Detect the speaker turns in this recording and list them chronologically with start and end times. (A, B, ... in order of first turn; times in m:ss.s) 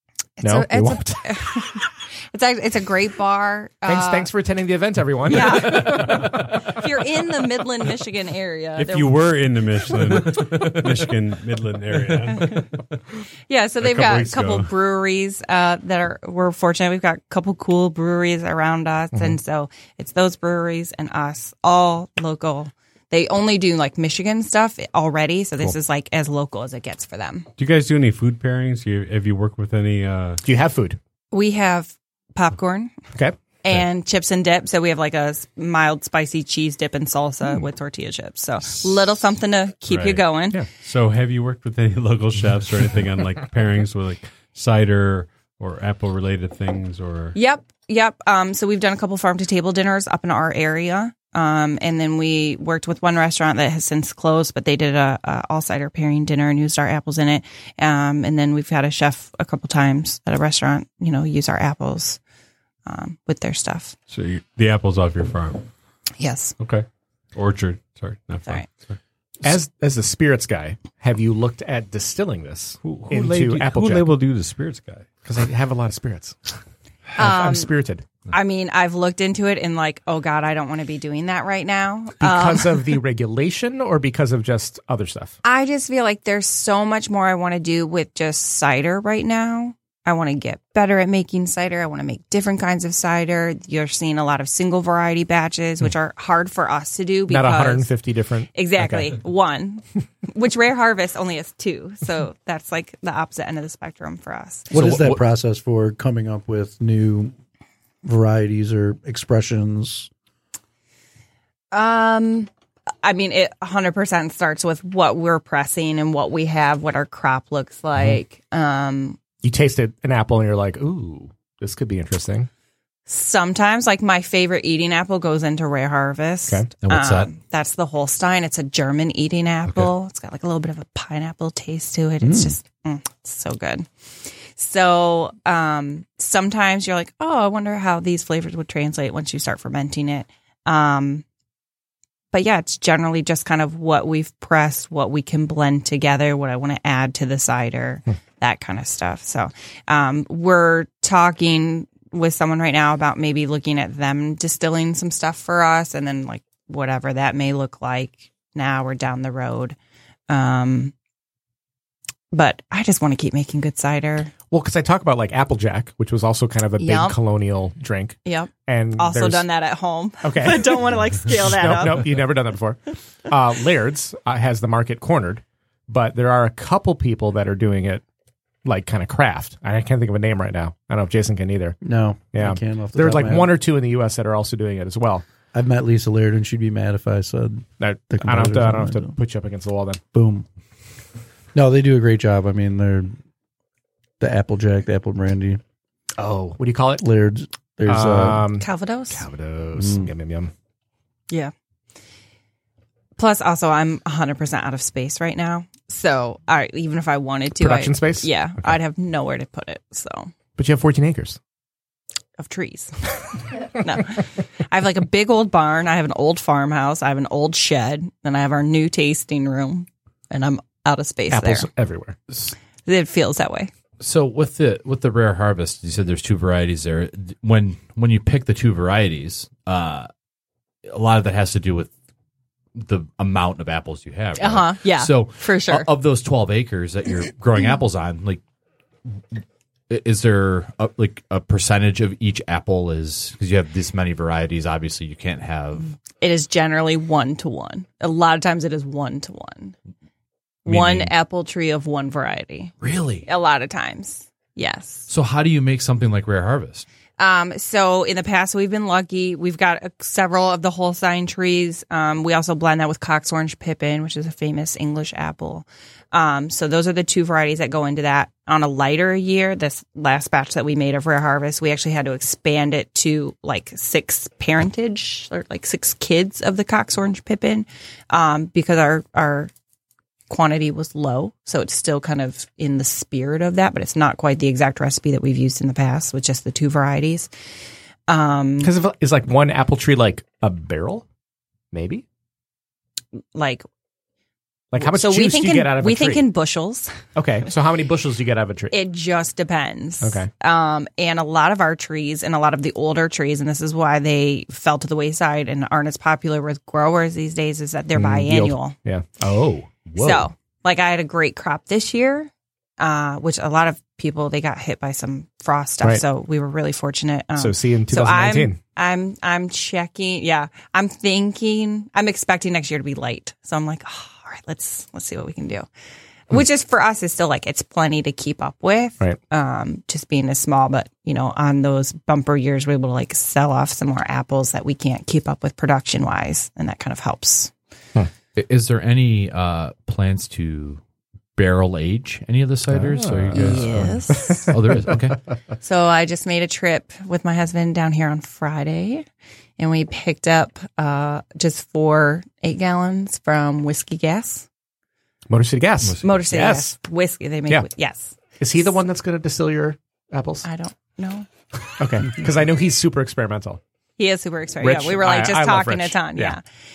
0:00.4-0:04.3 A
0:00.4-0:01.2 B
0:03.8-0:06.6 B
0:05.3-0:09.2 A
0:05.7-0:06.4 C
0:08.8-0:12.8 C
0:13.5-0:27.5 A
0:13.8-0:14.7 C
0:27.6-0:30.4 C
0:30.4-0:31.0 B
0:31.3-0:32.9 A
0:33.1-0:33.8 B
0:33.6-0:40.6 A
0:39.9-0:40.2 C
0:40.7-0:47.3 C
0:47.3-1:02.2 A
1:02.8-1:03.9 A
1:04.1-1:05.7 C
1:06.2-1:06.5 A
1:06.6-1:09.0 C
1:09.4-1:14.1 B
1:12.8-1:15.1 C
1:15.2-1:16.5 B
1:17.2-1:17.7 A
1:17.2-1:18.0 B
1:18.3-1:22.9 A
1:22.2-1:25.3 B
1:25.4-1:37.9 A
1:37.3-1:39.2 B
1:38.5-1:44.7 A
1:44.7-1:47.3 D
1:44.7-1:45.2 E
1:48.0-1:50.1 D
1:51.7-1:52.5 A
1:53.0-1:59.2 A
1:59.4-2:02.5 B
2:03.1-2:13.9 A
2:06.8-2:07.3 E
2:12.2-2:12.6 D
2:14.5-2:21.2 A
2:22.3-2:39.8 A
2:40.3-2:40.9 A
2:42.3-2:44.3 A
2:44.5-2:49.4 B
2:46.8-2:47.2 A
2:48.2-2:52.1 A
2:50.2-2:58.0 B
2:58.6-3:01.8 B
3:01.8-3:03.5 D
3:02.3-3:05.3 B
3:05.5-3:09.1 D
3:07.8-3:10.0 B
3:10.1-3:10.4 D
3:11.5-3:13.1 D
3:14.2-3:15.6 D
3:16.2-3:17.0 B
3:17.0-3:18.5 D
3:17.8-3:20.5 B
3:18.6-3:19.2 A
3:19.8-3:20.1 D
3:23.2-3:30.3 A
3:27.6-3:28.8 B
3:30.6-3:31.4 B
3:32.4-3:41.7 A
3:41.3-3:42.2 B
3:42.8-3:43.7 A
3:44.0-3:50.1 E
3:50.8-3:51.9 E
3:52.7-3:58.4 E
3:54.4-3:55.9 A
3:59.0-4:05.9 E
4:06.2-4:09.7 A
4:10.6-4:12.7 A
4:10.6-4:11.1 E
4:12.8-4:13.3 E
4:13.2-4:15.1 A
4:15.1-4:16.8 E
4:17.2-4:39.5 A
4:40.3-4:47.3 A
4:48.1-4:48.7 A
4:48.6-4:51.0 B
4:51.7-4:52.0 B
4:53.3-4:53.6 A
4:54.7-4:56.2 B
4:54.8-4:57.0 A
4:57.1-4:58.7 B
4:58.7-5:08.7 A
5:00.0-5:00.3 B
5:07.9-5:09.9 B
5:10.0-5:25.7 A
5:17.4-5:18.6 B
5:26.3-5:37.5 A
5:38.4-5:40.8 E
5:41.4-5:45.2 E
5:42.7-5:44.9 B
5:43.3-5:44.5 A
5:45.6-5:49.0 A
5:49.6-5:54.4 A
5:55.3-5:56.7 B
5:55.8-5:56.2 E
5:56.0-5:58.2 A
5:58.4-6:00.5 B
6:00.4-6:01.3 A
6:01.8-6:03.6 B
6:04.0-6:06.4 A
6:04.6-6:06.4 B